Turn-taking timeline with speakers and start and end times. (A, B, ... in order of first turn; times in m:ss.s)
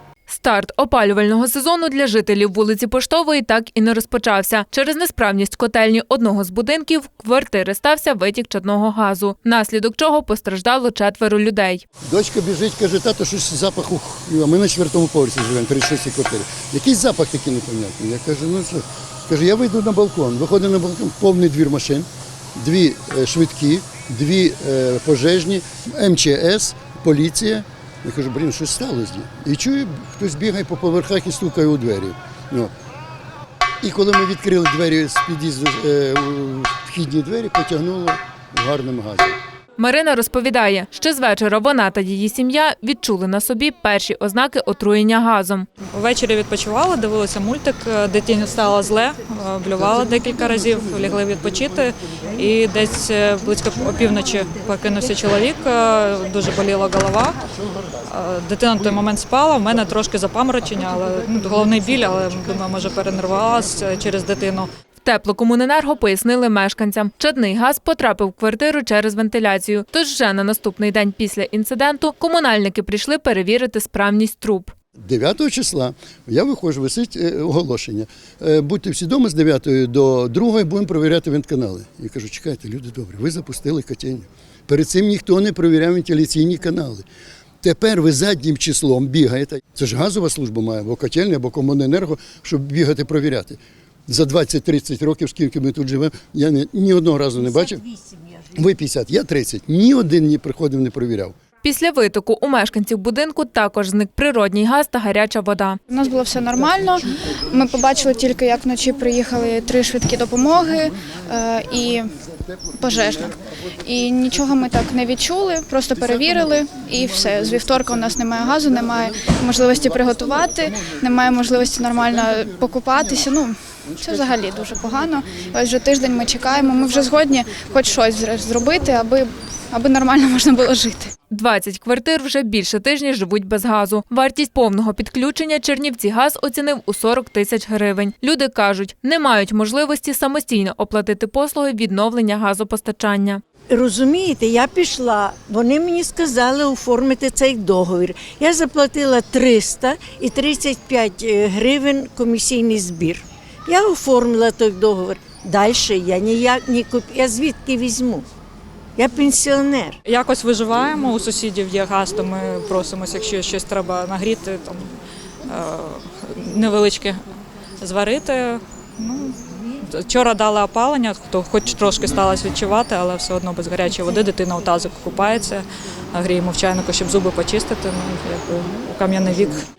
0:00.3-0:11.8 A
0:12.1-0:32.7 B
0:33.8-0:39.4 B
0:39.8-0:45.6 A
0:45.9-0:57.4 C
0:58.1-1:04.7 C
1:05.0-1:14.7 A
1:15.0-1:27.0 B
1:27.6-1:37.8 B
1:37.6-1:38.5 D
1:38.5-1:41.3 B
1:41.6-1:45.8 A
1:45.9-1:52.0 E
1:52.4-1:53.3 B
1:52.8-1:53.3 E
1:53.8-2:11.1 E
1:57.4-2:02.5 B
2:04.0-2:04.4 B
2:11.3-2:23.4 A
2:23.7-2:38.3 D
2:39.0-2:40.0 D
2:40.0-2:44.9 C
2:45.5-2:47.2 C
2:47.8-2:49.3 C
2:49.9-2:59.6 C